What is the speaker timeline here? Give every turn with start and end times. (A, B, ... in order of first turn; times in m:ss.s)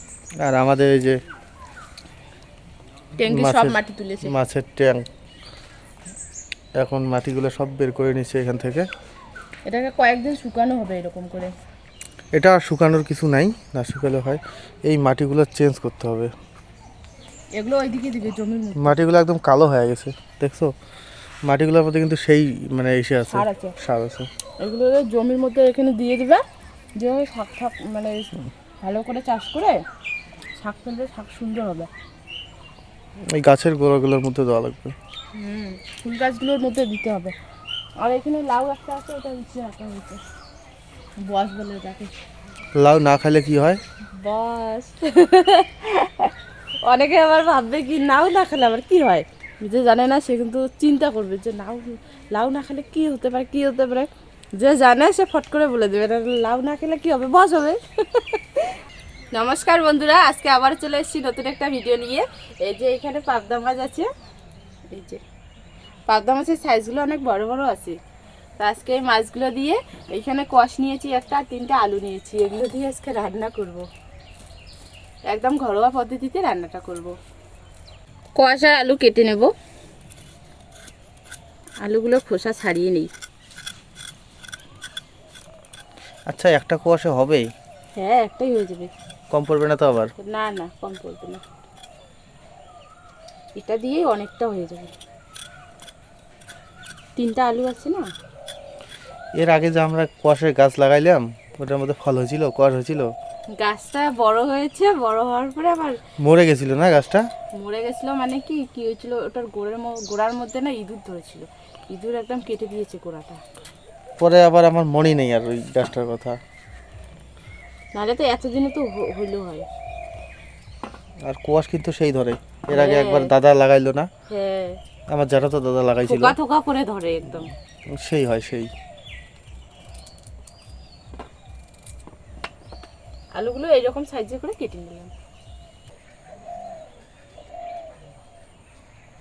0:00.4-0:01.2 A
0:03.2-0:04.3 B
0:03.3-0:05.0 A
0:06.8-0:08.9 A
0:09.7-0:11.5 B
0:12.4-0:16.3 A
0:17.6-0:19.0 B
0:18.8-0:20.7 A
0:21.5-0:24.3 A
0:23.3-0:23.8 B
0:24.6-0:26.4 B
0:27.0-0:29.8 B
0:30.6-0:31.9 B
0:33.3-0:35.0 A
0:35.4-0:37.4 B
0:38.0-0:40.2 B
0:41.2-0:42.1 B
0:42.8-0:43.8 A
0:44.1-0:58.7 B
0:59.3-1:04.1 B
1:04.9-1:05.2 B
1:06.1-1:08.0 B
1:08.6-1:13.9 B
1:15.3-1:17.2 B
1:18.4-1:19.5 B
1:21.8-1:23.1 B
1:26.3-1:27.5 A
1:28.0-1:28.9 B
1:29.3-1:30.1 A
1:30.2-1:31.4 B
1:33.6-1:34.9 B
1:37.2-1:38.1 B
1:39.4-1:43.1 A
1:43.5-1:46.0 B
1:46.2-1:47.2 A
1:47.6-1:53.4 B
1:54.2-1:56.4 A
1:58.0-1:59.7 B
2:01.3-2:04.1 A
2:02.7-2:03.3 B
2:04.3-2:04.8 B
2:05.1-2:06.4 A
2:06.1-2:07.5 B
2:07.9-2:08.7 A
2:13.4-2:15.1 B